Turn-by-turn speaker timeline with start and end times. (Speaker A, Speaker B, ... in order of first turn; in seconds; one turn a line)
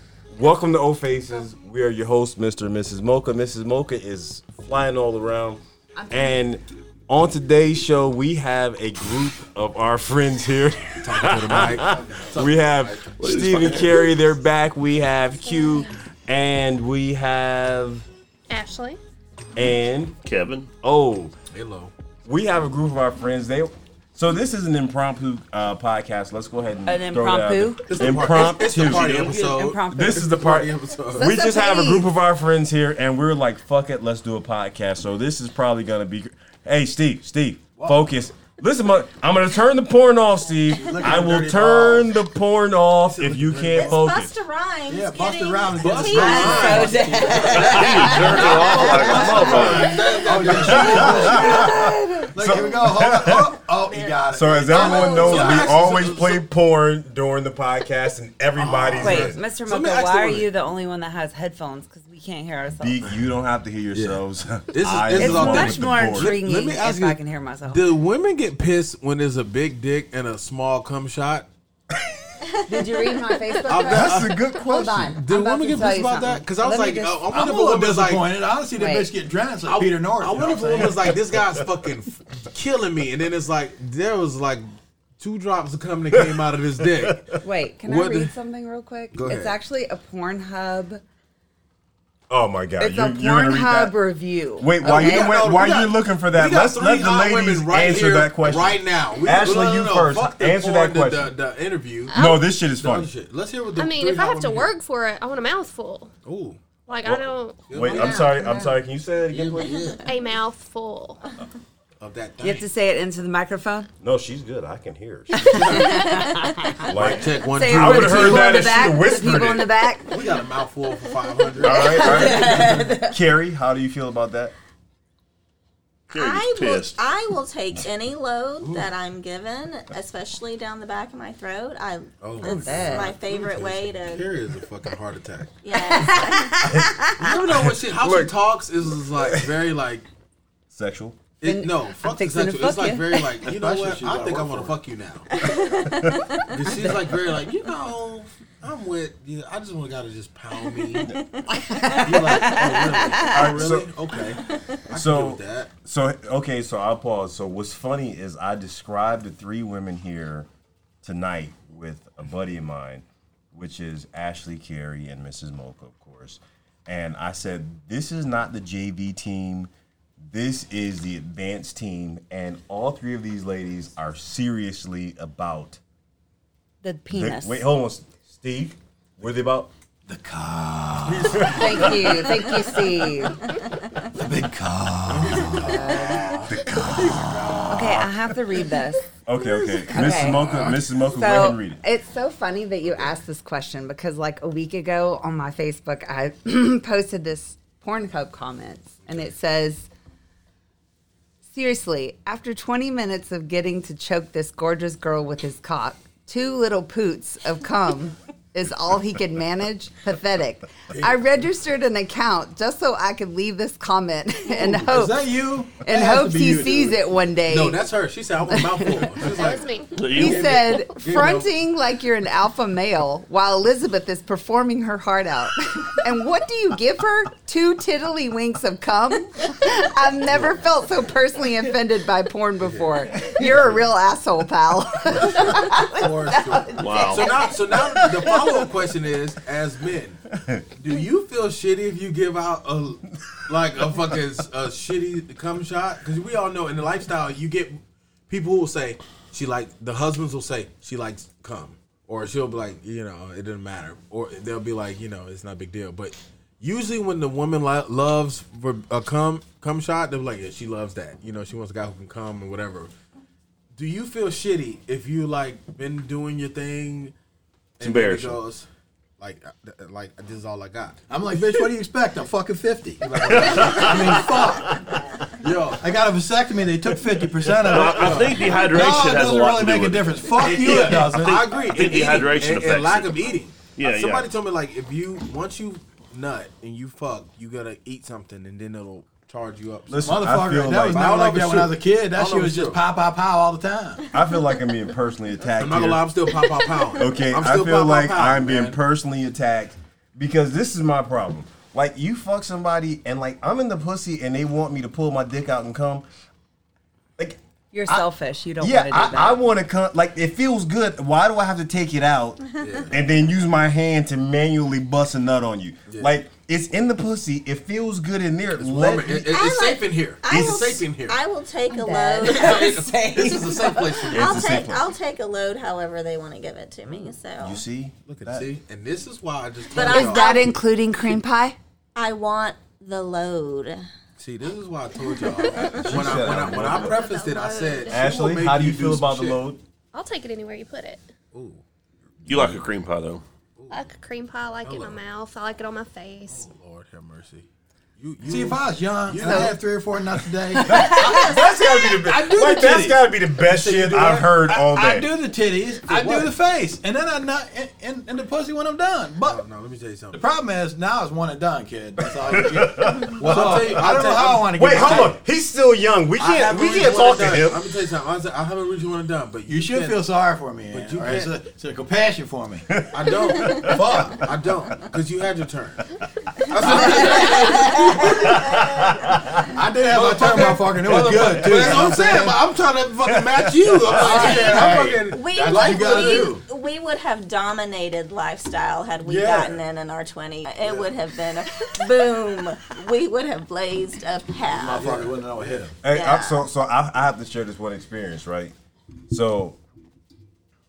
Speaker A: 0.3-18.1
Speaker B: 11.0-14.0
Speaker C: 11.7-12.5
Speaker D: 13.2-14.1
Speaker E: 18.5-19.0
Speaker A: 19.5-20.1
Speaker D: 20.2-20.7
Speaker A: 20.8-21.3
Speaker B: 21.5-21.9
Speaker A: 22.2-29.2
Speaker F: 26.9-28.3
Speaker B: 27.9-31.3
Speaker D: 28.7-29.4
Speaker F: 29.1-30.3
Speaker A: 29.9-44.3
Speaker F: 31.1-32.1
Speaker C: 40.7-42.1
Speaker B: 43.1-44.0
Speaker G: 43.7-47.1
Speaker C: 44.9-55.8
Speaker B: 45.7-51.7
Speaker F: 46.1-52.3
Speaker D: 47.5-50.0
Speaker A: 49.4-49.8
Speaker A: 50.6-53.6
Speaker G: 53.8-55.7
Speaker A: 54.3-59.4
Speaker B: 55.1-56.4
Speaker B: 58.6-60.5
Speaker F: 59.0-63.0
Speaker A: 62.8-66.4
Speaker B: 63.9-64.2
Speaker B: 64.7-71.5
Speaker F: 65.1-68.0
Speaker F: 72.7-77.2
Speaker B: 73.7-74.3
Speaker A: 73.7-75.2
Speaker B: 75.0-78.3
Speaker C: 77.3-81.1
Speaker F: 78.8-79.1
Speaker B: 79.6-84.7
Speaker B: 85.2-87.2
Speaker A: 86.1-87.2
Speaker F: 87.4-91.0
Speaker B: 87.8-88.3
Speaker B: 89.1-89.5
Speaker A: 92.3-94.0
Speaker F: 92.8-95.4
Speaker A: 94.6-101.3
Speaker B: 94.8-102.2
Speaker E: 102.1-102.6
Speaker A: 102.1-103.1
Speaker B: 102.8-104.7
Speaker E: 103.7-106.1
Speaker B: 106.2-106.6
Speaker E: 106.8-107.6
Speaker A: 107.0-110.0
Speaker B: 107.7-108.4
Speaker G: 107.8-108.3
Speaker B: 109.3-110.0
Speaker E: 110.0-111.2
Speaker B: 112.0-112.7
Speaker F: 112.4-113.9
Speaker A: 114.0-115.8
Speaker F: 115.3-120.2
Speaker B: 115.5-116.0
Speaker B: 116.8-118.7
Speaker A: 116.8-119.7
Speaker B: 120.0-122.9
Speaker A: 121.6-124.5
Speaker F: 121.6-123.1
Speaker D: 126.1-127.0
Speaker G: 126.1-134.3
Speaker B: 132.2-135.5
Speaker F: 132.4-133.1
Speaker G: 135.6-136.6
Speaker F: 135.8-137.1
Speaker A: 136.7-138.3
Speaker B: 137.2-140.1
Speaker A: 139.2-139.5
Speaker A: 140.7-141.2
Speaker B: 141.4-145.3
Speaker F: 141.4-143.2
Speaker C: 143.4-144.8
Speaker A: 145.8-146.3
Speaker B: 146.4-151.2
Speaker G: 150.8-152.1
Speaker F: 151.5-153.5
Speaker B: 151.9-155.7
Speaker A: 153.2-153.9
Speaker G: 154.4-154.8
Speaker A: 154.9-160.5
Speaker A: 161.0-175.8
Speaker F: 176.8-177.6
Speaker A: 177.1-179.7
Speaker C: 180.1-182.7
Speaker B: 181.1-182.2
Speaker A: 181.4-181.9
Speaker F: 181.4-183.4
Speaker C: 184.1-187.2
Speaker B: 185.1-186.3
Speaker F: 185.6-186.4
Speaker A: 186.7-187.2
Speaker B: 186.9-188.0
Speaker F: 187.7-189.0
Speaker A: 189.2-191.8
Speaker F: 189.9-199.9
Speaker B: 189.9-190.8
Speaker F: 201.5-217.9
Speaker B: 210.9-211.2
Speaker C: 214.6-217.0
Speaker B: 217.5-221.5
Speaker F: 218.4-219.2
Speaker E: 219.2-220.9
Speaker D: 219.9-220.6
Speaker F: 220.1-237.6
Speaker B: 230.3-230.6
Speaker B: 232.6-233.8
Speaker B: 235.2-240.2
Speaker D: 236.8-237.4
Speaker A: 240.4-240.6
Speaker B: 240.8-262.9
Speaker B: 263.7-267.1
Speaker B: 267.8-268.7
Speaker A: 267.8-268.4
Speaker B: 269.2-271.0
Speaker C: 271.1-274.8
Speaker B: 273.0-274.4
Speaker A: 273.3-275.0
Speaker B: 275.4-275.8
Speaker C: 275.8-281.5
Speaker A: 276.9-277.6
Speaker D: 277.6-280.1
Speaker B: 277.9-278.6
Speaker B: 280.4-290.2
Speaker D: 280.7-284.3
Speaker A: 289.9-291.1
Speaker C: 290.0-294.1
Speaker B: 290.9-292.8
Speaker A: 294.1-296.1
Speaker B: 295.5-298.8
Speaker A: 296.9-306.0
Speaker A: 307.2-308.0
Speaker F: 307.7-309.4
Speaker A: 308.6-319.3
Speaker B: 312.6-313.0
Speaker B: 318.6-321.2
Speaker G: 319.2-323.3
Speaker A: 320.3-320.6
Speaker F: 321.7-323.9
Speaker B: 322.2-324.4
Speaker G: 324.0-327.6
Speaker A: 324.1-324.8
Speaker A: 327.4-328.5
Speaker B: 328.1-330.5
Speaker G: 329.7-330.6
Speaker F: 329.8-331.6
Speaker G: 331.9-333.8
Speaker B: 334.2-339.4
Speaker G: 335.6-335.9
Speaker A: 335.8-337.1
Speaker E: 336.3-338.2
Speaker A: 337.9-339.6
Speaker E: 339.9-341.1
Speaker B: 341.3-341.6
Speaker B: 342.2-342.6
Speaker D: 342.2-343.2
Speaker B: 343.6-343.8
Speaker E: 343.7-346.5
Speaker B: 344.6-345.0
Speaker B: 346.3-347.4
Speaker B: 348.0-349.6
Speaker C: 348.2-359.4
Speaker A: 350.6-355.1
Speaker B: 355.8-356.3
Speaker B: 359.2-360.2
Speaker C: 360.1-365.2
Speaker A: 362.3-363.9
Speaker B: 363.1-365.1
Speaker A: 364.5-367.7
Speaker C: 366.2-367.3
Speaker B: 366.3-370.1
Speaker C: 369.5-372.8
Speaker B: 370.7-371.3
Speaker A: 372.7-374.8
Speaker B: 372.9-375.8
Speaker G: 373.4-373.7
Speaker C: 373.5-374.3
Speaker B: 376.5-378.6
Speaker A: 376.5-377.0
Speaker C: 376.7-377.6
Speaker G: 377.0-377.5
Speaker A: 377.6-379.5
Speaker C: 379.5-382.4
Speaker B: 379.8-386.4
Speaker A: 381.6-381.9
Speaker A: 383.1-384.2
Speaker C: 383.8-386.4
Speaker G: 384.2-394.9
Speaker B: 389.0-389.6
Speaker C: 394.5-395.7
Speaker B: 394.7-395.6
Speaker A: 395.8-398.5
Speaker G: 395.9-396.4
Speaker A: 399.1-399.6